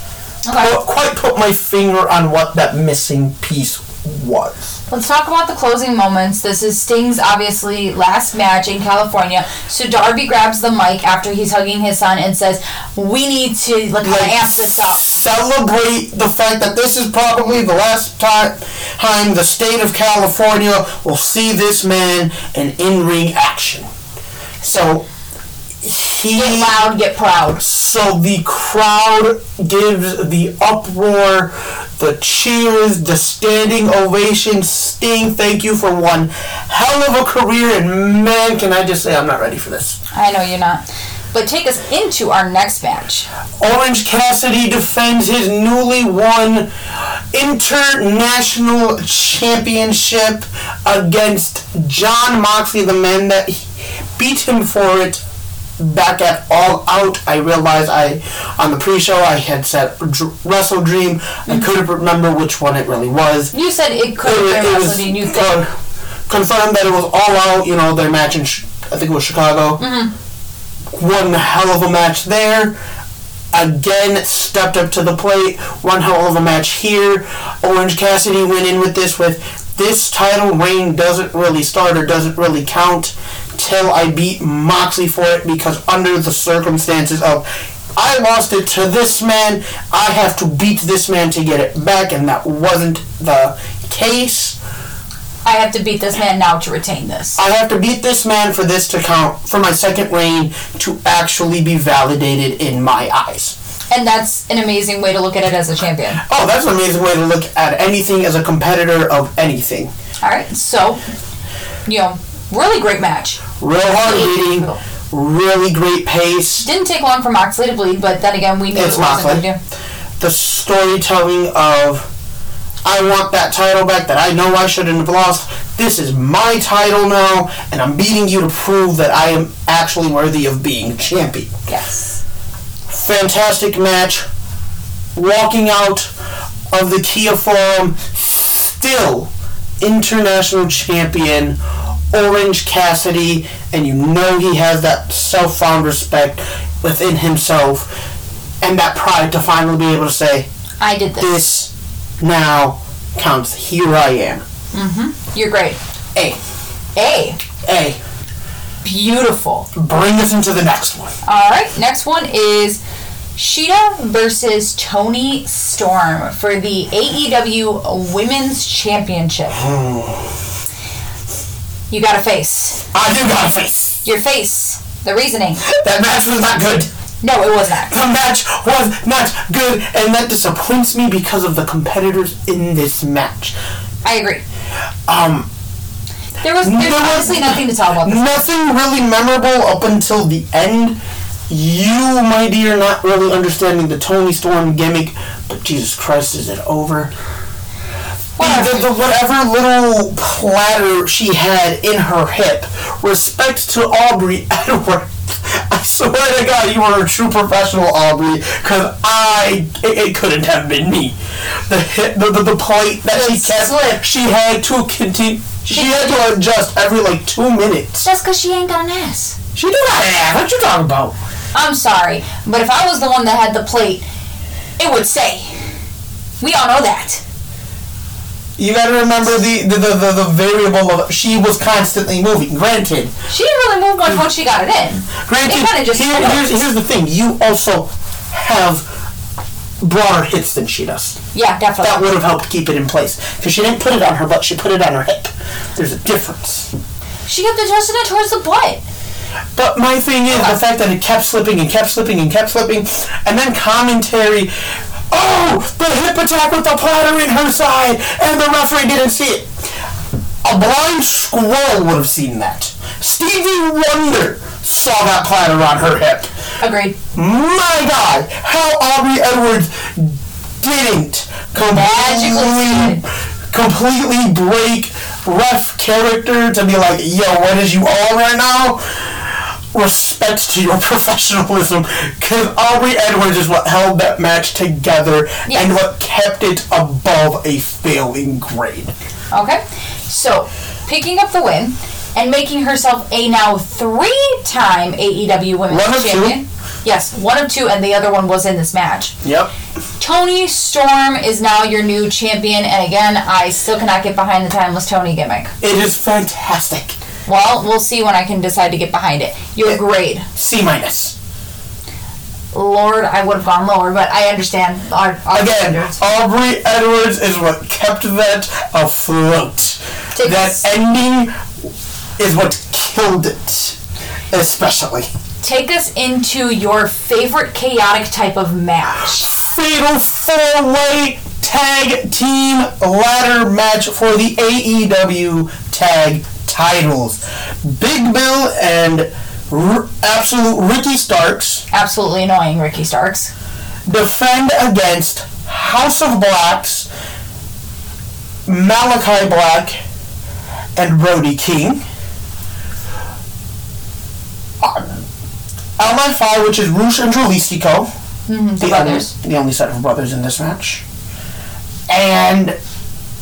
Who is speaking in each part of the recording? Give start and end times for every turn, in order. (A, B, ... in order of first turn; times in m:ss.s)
0:00.4-0:00.7 A
0:00.5-0:04.8 B
0:04.9-0:15.0 A
0:14.0-0:23.9 B
0:24.6-0:25.1 B
0:25.8-0:26.8 B
0:26.4-0:27.6 A
0:27.6-0:40.0 B
0:40.1-0:43.3 A
0:43.6-0:55.2 B
0:55.8-1:03.5 B
1:03.5-1:05.7 A
1:04.2-1:05.7 B
1:06.3-1:09.8 B
1:09.8-1:10.1 A
1:10.9-1:12.8 B
1:13.5-1:27.4 B
1:28.0-1:34.6 B
1:35.4-1:37.4 A
1:37.4-1:43.6 B
1:43.9-1:46.2 A
1:46.2-1:49.9 B
1:50.2-1:51.0 A
1:51.9-1:54.8 A
1:53.6-1:56.7 B
1:56.6-1:59.6 A
1:58.7-1:59.5 B
2:00.2-2:02.1 B
2:02.8-2:11.5 B
2:11.7-2:12.2 A
2:12.9-2:14.3 B
2:15.2-2:16.1 B
2:16.7-2:21.6 B
2:22.1-2:27.9 B
2:28.6-2:30.5 B
2:30.8-2:31.4 A
2:31.2-2:34.4 B
2:34.7-2:35.8 A
2:36.2-2:36.4 B
2:37.0-2:37.4 A
2:37.6-2:38.0 B
2:38.8-2:39.7 A
2:39.7-2:41.1 B
2:41.2-2:42.8 A
2:43.4-2:49.6 A
2:49.6-2:50.3 B
2:51.9-2:52.8 A
2:52.9-2:54.0 B
2:54.0-2:55.6 A
2:55.6-2:56.9 B
2:57.2-2:58.0 A
2:57.9-3:03.6 B
3:04.0-3:04.4 A
3:05.1-3:05.5 B
3:06.4-3:08.4 A
3:06.6-3:17.1 B
3:18.4-3:18.8 A
3:18.4-3:38.1 B
3:33.1-3:34.0 A
3:35.7-3:36.2 A
3:38.0-3:39.4 A
3:39.6-3:41.2 B
3:41.5-3:44.0 A
3:44.8-3:45.6 A
3:46.4-3:47.2 A
3:48.6-3:53.1 B
3:53.3-3:56.5 A
3:55.3-3:58.9 B
3:59.8-4:01.2 B
4:01.3-4:02.1 A
4:01.8-4:06.7 B
4:07.3-4:08.8 A
4:09.6-4:14.5 B
4:15.1-4:19.5 B
4:20.4-4:26.3 B
4:26.6-4:27.0 A
4:27.2-4:48.9 B
4:31.6-4:33.0 A
4:45.5-4:45.8 A
4:49.3-4:59.2 A
4:55.7-4:56.4 B
4:59.2-4:59.5 B
5:00.0-5:05.5 A
5:05.6-5:07.0 B
5:07.3-5:10.3 A
5:10.4-5:11.2 B
5:12.5-5:16.0 A
5:15.3-5:21.3 B
5:20.2-5:20.6 A
5:22.2-5:23.8 B
5:24.3-5:25.1 B
5:25.4-5:29.3 A
5:29.2-5:41.6 B
5:41.7-5:43.3 A
5:43.9-5:46.9 B
5:48.5-5:49.8 B
5:50.8-5:51.8 B
5:54.6-5:55.0 B
5:55.8-5:57.9 B
5:58.3-5:59.1 A
5:58.6-6:00.8 B
6:01.9-6:02.6 B